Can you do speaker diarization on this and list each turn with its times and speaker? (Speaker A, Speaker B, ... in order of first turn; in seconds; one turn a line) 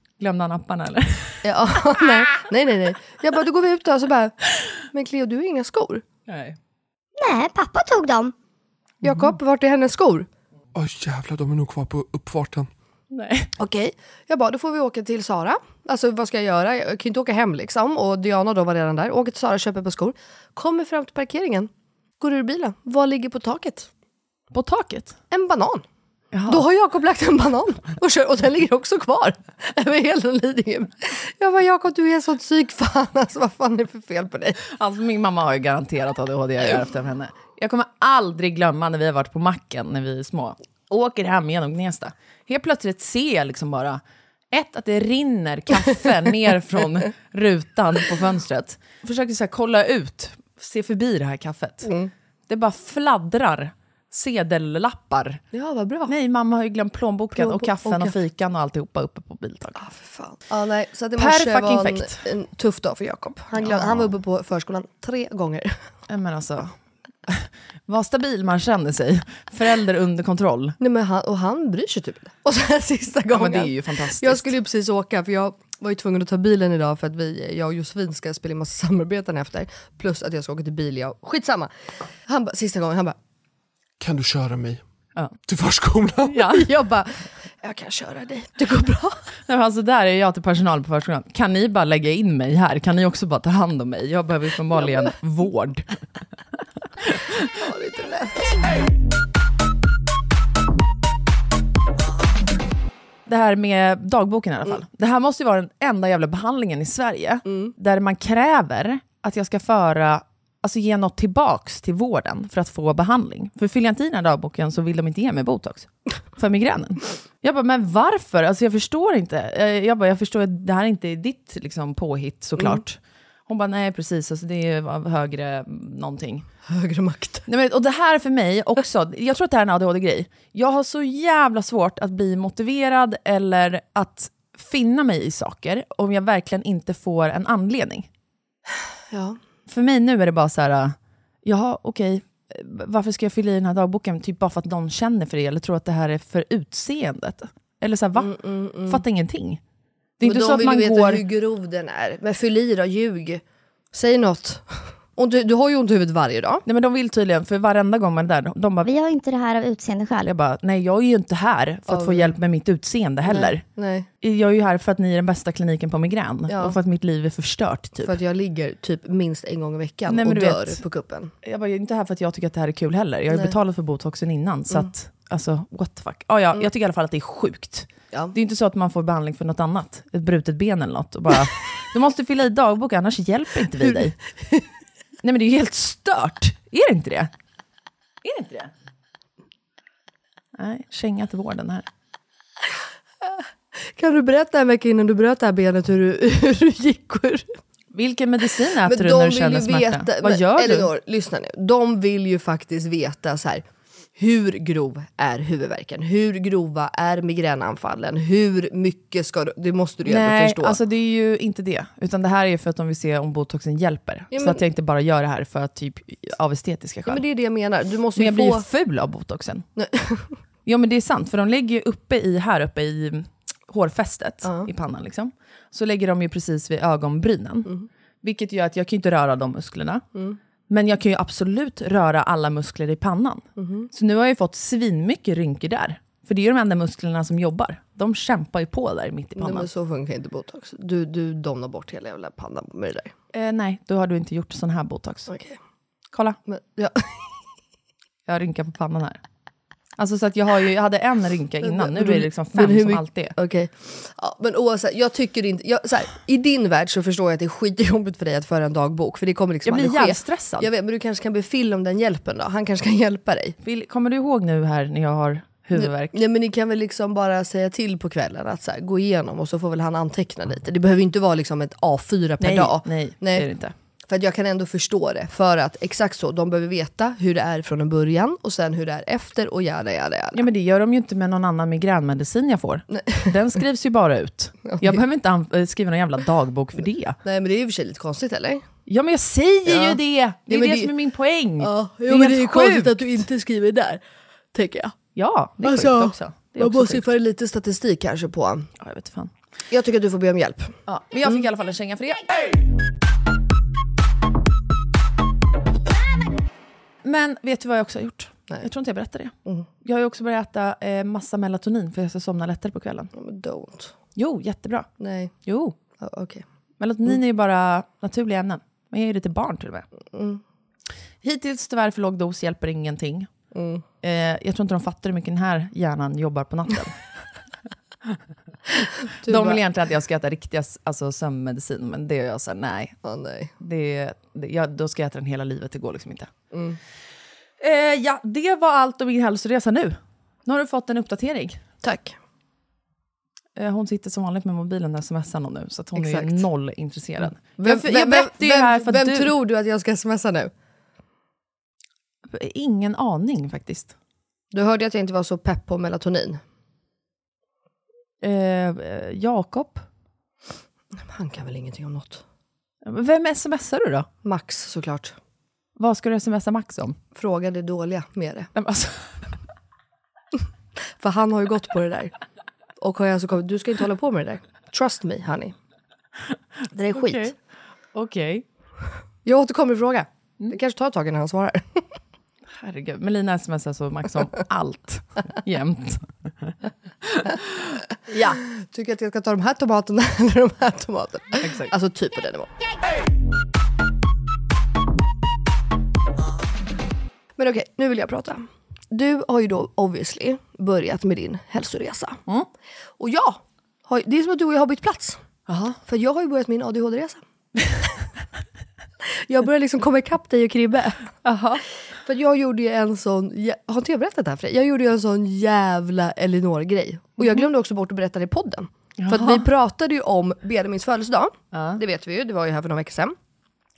Speaker A: 0.2-1.4
Speaker B: 1.4-6.0
Speaker A: 6.3-6.6
Speaker C: 7.2-8.3
Speaker B: 9.0-10.3
Speaker D: 10.8-12.7
Speaker A: 13.1-13.5
Speaker B: 13.6-23.9
Speaker A: 24.5-25.2
Speaker B: 25.3-25.8
Speaker A: 26.3-26.6
Speaker B: 26.5-34.6
Speaker A: 34.7-44.0
Speaker A: 44.5-51.9
Speaker B: 51.9-52.1
Speaker A: 52.5-55.4
Speaker B: 55.5-56.1
Speaker A: 56.1-59.8
Speaker B: 57.4-58.1
Speaker B: 59.8-65.8
Speaker A: 61.2-62.2
Speaker A: 63.6-64.1
Speaker A: 66.1-66.7
Speaker A: 67.3-70.8
Speaker B: 70.8-81.7
Speaker A: 73.3-74.5
Speaker B: 82.3-83.2
Speaker D: 84.0-84.8
Speaker D: 85.5-86.5
Speaker A: 86.3-86.6
Speaker B: 86.5-89.2
Speaker A: 89.5-95.8
Speaker B: 97.5-98.7
Speaker A: 103.3-126.5
Speaker B: 126.7-127.5
Speaker A: 127.5-138.1
Speaker B: 139.1-139.4
Speaker A: 139.7-148.3
Speaker B: 148.2-149.0
Speaker A: 148.9-149.6
Speaker A: 150.2-151.2
Speaker B: 150.2-153.4
Speaker B: 153.9-156.6
Speaker A: 156.7-158.9
Speaker C: 158.8-160.3
Speaker A: 160.2-163.6
Speaker B: 161.9-162.3
Speaker B: 163.3-164.1
Speaker A: 164.2-168.2
Speaker B: 166.5-166.8
Speaker B: 168.0-171.3
Speaker A: 170.1-170.8
Speaker A: 171.4-184.2
Speaker A: 185.2-187.3
Speaker A: 188.2-188.7
Speaker A: 190.6-191.9
Speaker B: 193.8-197.5
Speaker A: 197.9-200.9
Speaker B: 198.8-203.6
Speaker B: 204.2-210.8
Speaker A: 210.1-217.2
Speaker B: 214.3-214.6
Speaker B: 217.1-218.7
Speaker A: 218.2-219.7
Speaker B: 219.8-220.4
Speaker A: 220.7-227.7
Speaker A: 228.2-230.0
Speaker A: 230.7-239.7
Speaker B: 233.6-233.9
Speaker B: 239.4-243.1
Speaker A: 243.3-245.3
Speaker B: 245.3-245.6
Speaker A: 246.1-246.4
Speaker B: 246.5-247.3
Speaker A: 248.3-249.2
Speaker A: 250.0-253.3
Speaker B: 251.6-263.6
Speaker A: 259.6-260.7
Speaker A: 263.6-266.2
Speaker B: 265.8-273.5
Speaker A: 272.4-273.7
Speaker B: 274.1-280.5
Speaker A: 280.4-287.2
Speaker B: 283.0-283.3
Speaker B: 284.7-285.0
Speaker B: 287.2-288.6
Speaker A: 288.9-293.0
Speaker B: 289.7-290.9
Speaker B: 291.6-294.0
Speaker B: 294.5-295.0
Speaker A: 295.2-297.1
Speaker B: 295.6-298.7
Speaker A: 298.8-299.3
Speaker B: 299.7-300.8
Speaker A: 300.9-302.3
Speaker A: 307.1-309.3
Speaker A: 309.8-313.1
Speaker B: 313.1-313.9
Speaker A: 314.2-314.9
Speaker B: 315.0-315.3
Speaker A: 315.5-315.8
Speaker B: 316.0-316.4
Speaker A: 316.8-319.9
Speaker B: 320.1-320.4
Speaker A: 321.2-323.3
Speaker B: 323.5-323.8
Speaker A: 324.0-327.0
Speaker B: 329.2-329.6
Speaker A: 329.3-333.0
Speaker B: 333.0-333.5
Speaker A: 333.6-336.3
Speaker B: 336.5-336.8
Speaker A: 337.6-341.6
Speaker B: 341.8-342.1
Speaker A: 343.6-349.3
Speaker B: 346.0-346.4
Speaker B: 347.6-350.5
Speaker A: 352.3-353.9
Speaker B: 354.5-356.4
Speaker A: 358.2-359.9
Speaker B: 361.1-362.2
Speaker A: 362.8-364.1
Speaker B: 364.2-365.1
Speaker A: 365.8-367.0
Speaker B: 367.1-368.5
Speaker A: 368.6-369.0
Speaker B: 371.0-372.1
Speaker B: 372.8-375.5
Speaker B: 376.7-377.3
Speaker A: 376.9-377.3
Speaker A: 377.9-378.4
Speaker B: 379.2-381.8
Speaker A: 382.6-386.5
Speaker A: 388.1-388.4
Speaker B: 388.3-392.5
Speaker A: 391.4-391.7
Speaker B: 397.4-402.2
Speaker B: 403.0-405.2
Speaker A: 405.5-405.8
Speaker B: 405.8-407.2
Speaker B: 409.3-411.1
Speaker A: 411.2-411.6
Speaker B: 412.0-423.1
Speaker A: 419.0-419.5
Speaker A: 421.5-421.8